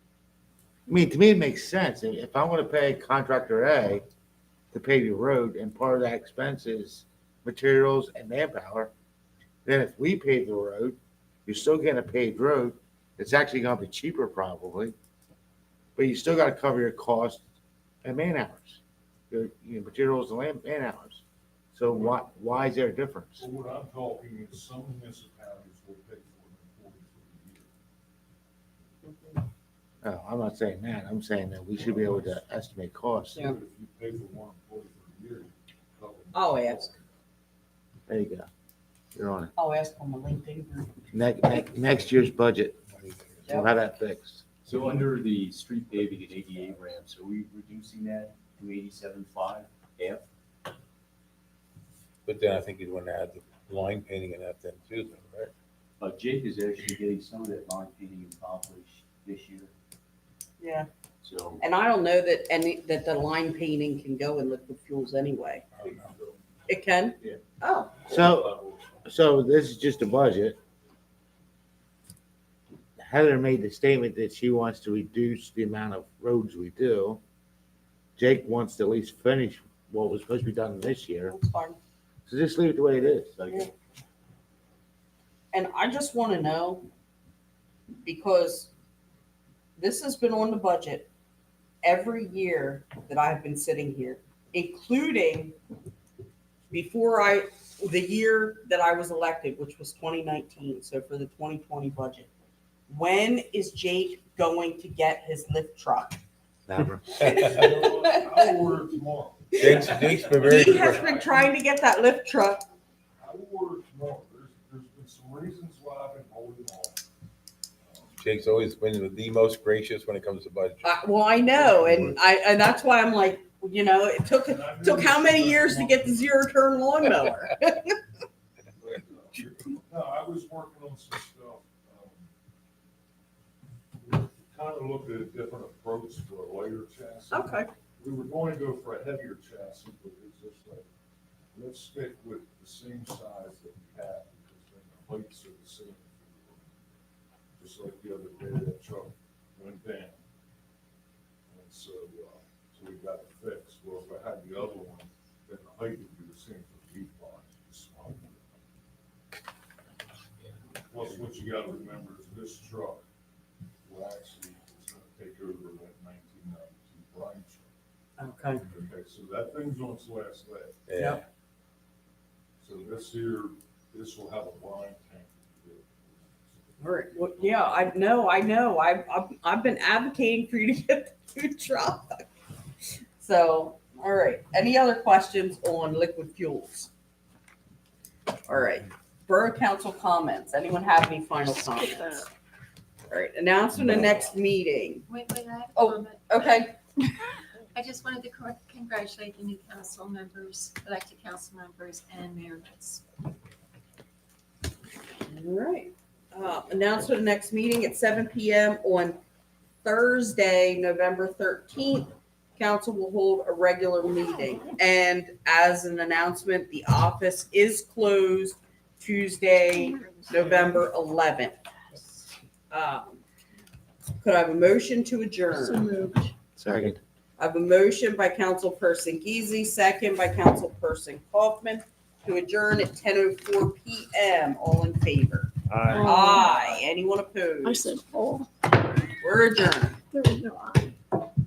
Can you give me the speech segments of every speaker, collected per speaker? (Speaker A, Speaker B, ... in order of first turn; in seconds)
Speaker A: 0.9-4.0, 4.7-8.9, 9.6-14.9, 15.9-17.4, 18.0-21.2, 21.7-23.4, 30.0-33.4, 38.1-38.5, 39.1-39.5, 41.1-42.8, 43.5-44.4, 68.1-70.6, 73.0-77.2, 78.2-81.3, 82.3-83.3, 106.7-107.0, 226.6-227.0
Speaker B: 21.9-22.2, 23.4-27.7, 31.8-32.4, 33.3-37.1, 65.8-66.3, 68.1-68.7, 107.2-111.4, 113.2-117.0, 117.8-118.3, 121.5-122.2, 124.4-126.2, 128.8-132.3, 134.0-140.9, 141.5-146.8, 147.6-150.2, 151.5-158.5, 160.9-163.1, 163.8-167.7, 168.6-170.8, 172.6-177.9
Speaker C: 29.0-29.4, 36.3-36.9, 39.6-40.9, 60.6-60.9, 61.6-65.6, 66.7-68.1, 81.3-81.8, 85.5-86.8, 88.0-88.7, 89.8-91.1, 91.8-95.5, 96.7-102.3, 102.9-106.2, 109.6-112.6, 120.8-128.0, 137.3-137.7, 168.2-168.6, 170.9-171.2, 176.8-182.2, 183.2-186.9, 188.5-192.2, 193.1-195.1, 195.7-196.7, 205.2-209.2, 209.8-221.6, 222.7-223.2, 224.2-225.9, 227.4-237.9, 239.2-240.0
Speaker D: 43.0-43.4, 52.2-55.5, 65.8-66.1, 109.6-111.1, 118.2-120.8, 170.9-171.2
Speaker E: 44.6-50.2, 56.0-59.7, 61.2-61.6, 82.9-83.7
Speaker F: 191.4-192.3, 220.0-220.9, 225.5-226.3, 235.9-236.7, 237.6-238.5, 240.1-240.9
Speaker G: 195.1-196.6, 197.7-203.0